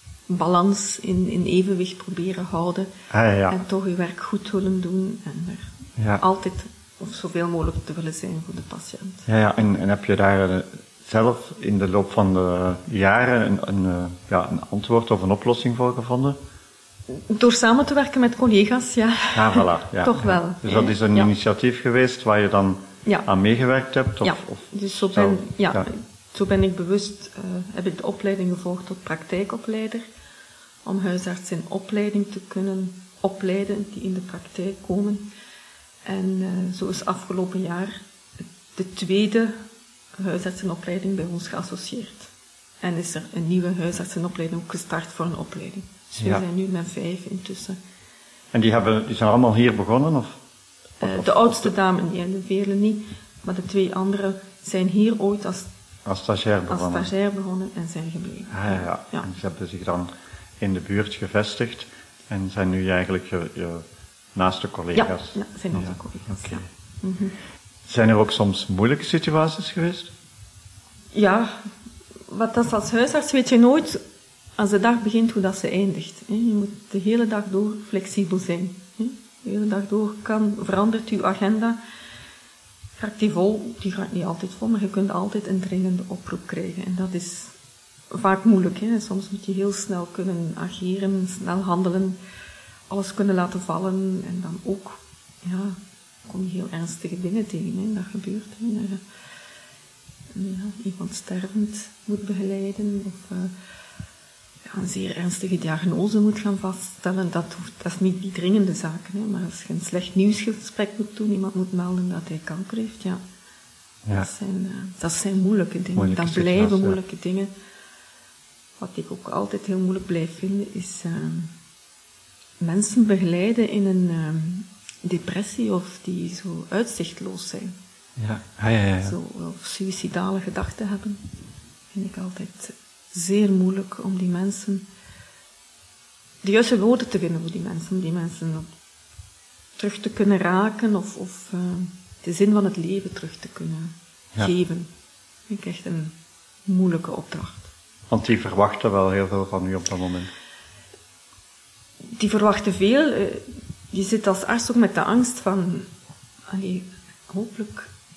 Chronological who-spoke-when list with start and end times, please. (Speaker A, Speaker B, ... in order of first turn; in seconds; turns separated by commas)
Speaker A: 0.3-2.9, Speaker B: 3.1-3.6, Speaker A: 3.5-9.3, Speaker B: 9.3-16.4, Speaker A: 17.1-21.3, Speaker B: 19.3-25.9, Speaker A: 24.2-30.0, Speaker A: 30.8-35.3, Speaker A: 36.0-38.0, Speaker A: 38.7-39.6, Speaker A: 40.2-42.3, Speaker A: 42.8-47.8, Speaker B: 46.2-46.4, Speaker B: 48.5-50.4, Speaker A: 51.0-55.7, Speaker B: 51.0-51.7, Speaker B: 56.0-57.1, Speaker A: 56.7-59.3, Speaker B: 58.5-63.8, Speaker B: 64.3-66.6, Speaker A: 64.9-67.3, Speaker B: 67.8-70.1, Speaker A: 71.1-71.6, Speaker A: 72.3-74.0, Speaker A: 74.6-81.8, Speaker A: 83.0-87.5, Speaker A: 88.1-92.2, Speaker A: 92.9-99.0, Speaker A: 100.3-103.5, Speaker A: 104.7-113.2, Speaker A: 114.1-117.5, Speaker B: 116.0-117.0, Speaker A: 118.8-121.5, Speaker A: 122.6-127.8, Speaker B: 128.2-129.2, Speaker A: 129.0-131.2, Speaker A: 131.9-134.9, Speaker A: 136.4-138.7, Speaker A: 139.8-144.9, Speaker A: 145.5-146.1, Speaker A: 146.7-147.7, Speaker B: 148.1-150.3, Speaker A: 152.1-155.9, Speaker A: 156.5-157.9